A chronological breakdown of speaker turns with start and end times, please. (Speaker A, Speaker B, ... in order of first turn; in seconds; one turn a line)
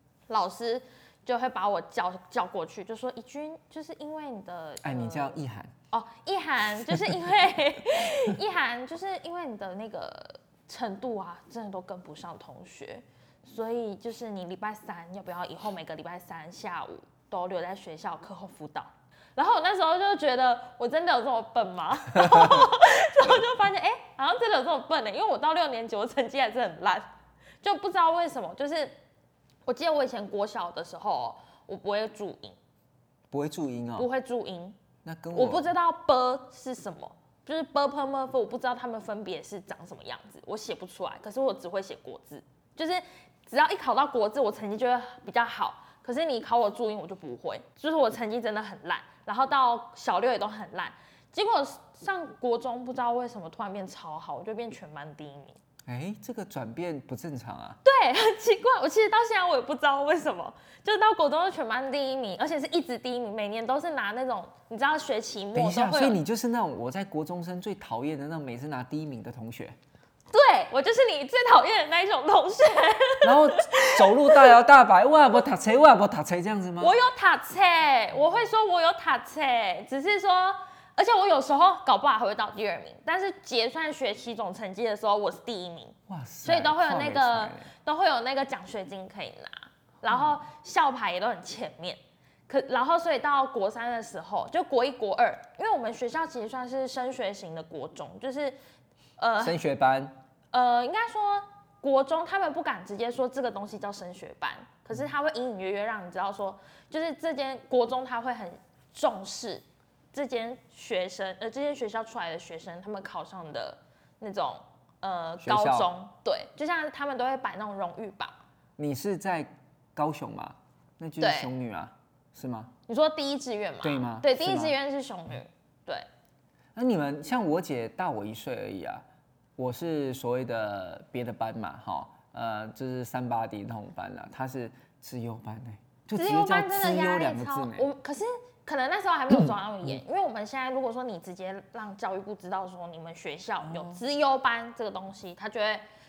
Speaker A: 0.3-5.4
Speaker B: 4.8-5.7
Speaker A: 5.9-27.1
Speaker B: 22.2-22.6
Speaker A: 27.6-28.9
Speaker A: 29.6-32.6
Speaker B: 33.3-34.1
Speaker A: 34.0-34.8
Speaker B: 35.0-35.7
Speaker A: 35.3-55.6
Speaker B: 55.9-57.8
Speaker A: 57.8-66.2
Speaker B: 65.5-69.8
Speaker A: 70.3-74.5
Speaker B: 73.2-76.9
Speaker A: 76.8-98.5
Speaker B: 86.1-87.7
Speaker B: 90.1-90.4
Speaker A: 99.2-99.6
Speaker B: 99.4-100.1
Speaker A: 100.5-118.3
Speaker B: 115.4-115.9
Speaker B: 118.8-122.7
Speaker A: 121.2-121.5
Speaker A: 122.9-126.1
Speaker B: 123.8-124.8
Speaker B: 126.7-129.0
Speaker B: 129.6-137.9
Speaker A: 136.2-145.8
Speaker B: 139.3-140.0
Speaker B: 143.6-144.0